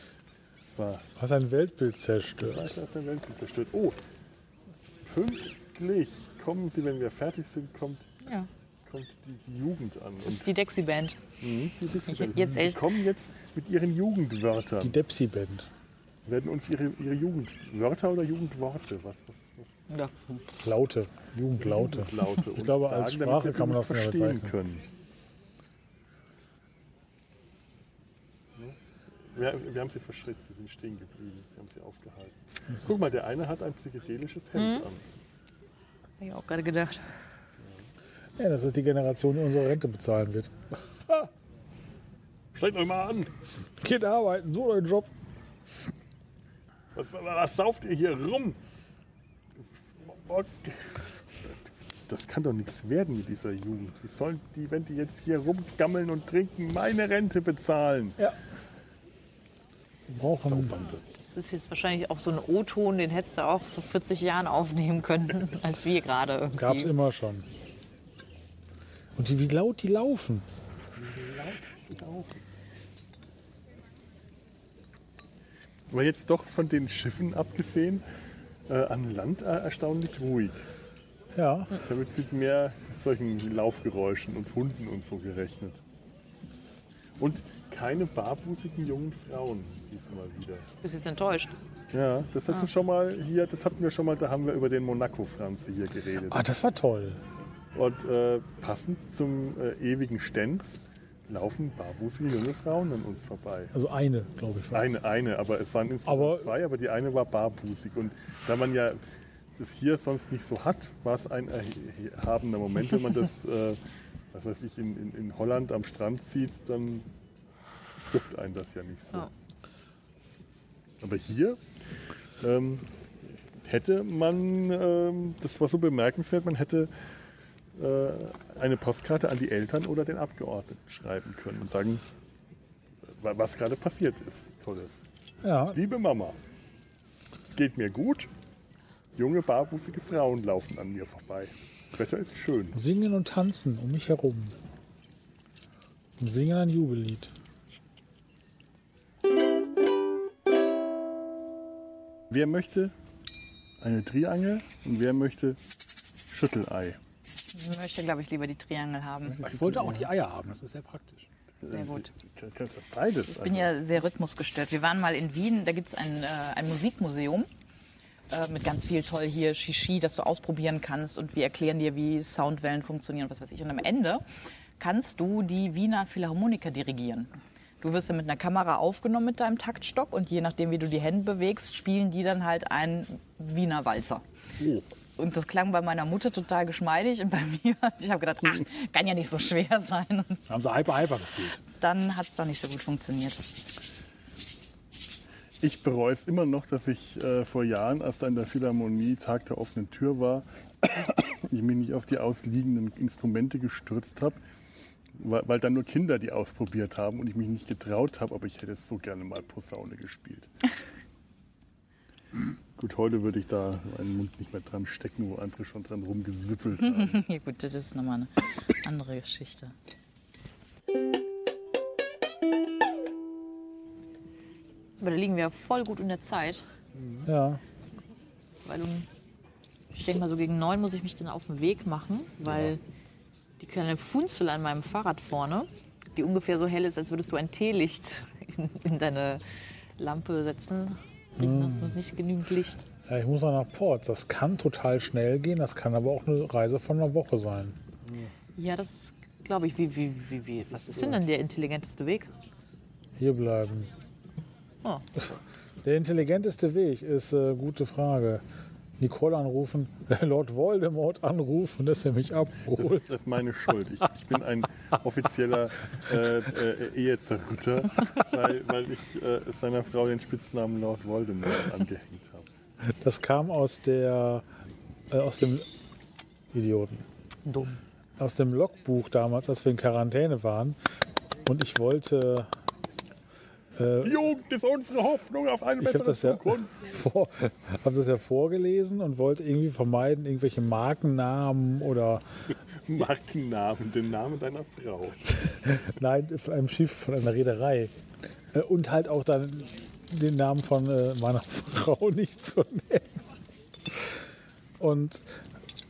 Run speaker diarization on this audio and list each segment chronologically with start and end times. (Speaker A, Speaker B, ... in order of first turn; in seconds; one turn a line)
Speaker A: 0.6-1.1
Speaker B: 1.2-2.7
Speaker A: 2.4-4.0
Speaker A: 5.0-8.1
Speaker C: 8.2-8.5
Speaker A: 8.8-10.6
Speaker C: 10.2-11.2
Speaker A: 11.4-15.0
Speaker C: 12.0-12.9
Speaker B: 14.8-15.7
Speaker A: 16.2-19.9
Speaker C: 19.9-20.4
Speaker B: 20.6-24.6
Speaker A: 21.6-24.9
Speaker A: 28.6-35.0
Speaker B: 32.7-33.0
Speaker C: 34.5-34.9
Speaker C: 36.2-37.1
Speaker A: 37.6-37.9
Speaker B: 38.4-41.3
Speaker A: 42.5-43.4
Speaker B: 43.8-45.1
Speaker A: 46.9-48.6
Speaker A: 49.6-58.2
Speaker B: 60.1-60.7
Speaker A: 60.4-61.0
Speaker C: 61.1-66.9
Speaker B: 66.5-67.5
Speaker B: 69.2-70.5
Speaker A: 71.0-72.4
Speaker A: 75.9-78.0
Speaker A: 78.7-80.7
Speaker B: 81.3-81.7
Speaker A: 81.7-85.8
Speaker A: 87.2-90.7
Speaker C: 90.8-91.6
Speaker A: 91.9-96.5
Speaker B: 96.3-97.2
Speaker A: 97.7-103.7
Speaker B: 103.7-104.9
Speaker A: 104.7-109.0
Speaker B: 106.0-106.5
Speaker A: 109.5-113.8
Speaker A: 114.3-117.0
Speaker A: 118.1-119.3
Speaker A: 121.0-121.6
Speaker A: 122.4-122.8
Speaker A: 123.6-126.9
Speaker A: 127.7-132.0
Speaker A: 133.0-135.1
Speaker B: 135.4-135.8
Speaker A: 135.7-136.4
Speaker A: 137.4-138.3
Speaker A: 139.2-142.8
Speaker B: 142.7-144.6
Speaker B: 146.2-147.3
Speaker A: 152.3-152.9
Speaker A: 153.8-155.6
Speaker A: 156.3-157.0
Speaker C: 157.5-159.4
Speaker A: 159.2-160.1
Speaker B: 159.4-161.3
Speaker A: 161.6-163.7
Speaker C: 161.7-162.1
Speaker C: 163.2-167.5
Speaker C: 168.3-174.2
Speaker C: 174.8-184.2
Speaker A: 184.6-184.8
Speaker C: 185.2-190.4
Speaker B: 190.5-191.6
Speaker C: 191.8-193.7
Speaker A: 195.6-204.4
Speaker A: 205.1-210.5
Speaker A: 212.8-217.2
Speaker C: 216.8-219.7
Speaker C: 225.0-226.7
Speaker A: 227.0-227.2
Speaker B: 227.2-227.6
Speaker C: 228.6-229.1
Speaker C: 229.9-232.8
Speaker A: 232.4-232.7
Speaker C: 233.6-239.4
Speaker C: 240.0-242.8
Speaker B: 241.4-241.9
Speaker B: 243.1-247.8
Speaker A: 248.0-248.3
Speaker C: 248.6-252.3
Speaker A: 250.7-251.2
Speaker B: 253.2-253.9
Speaker B: 255.2-258.4
Speaker B: 259.0-263.1
Speaker A: 262.7-272.5
Speaker B: 273.0-274.4
Speaker B: 275.1-275.7
Speaker B: 276.5-277.1
Speaker C: 277.5-277.8
Speaker B: 278.2-280.8
Speaker B: 281.4-282.5
Speaker B: 283.8-284.3
Speaker A: 284.0-286.8
Speaker B: 285.8-292.2
Speaker A: 292.8-295.3
Speaker B: 295.6-297.9
Speaker B: 298.5-303.2
Speaker B: 304.8-305.2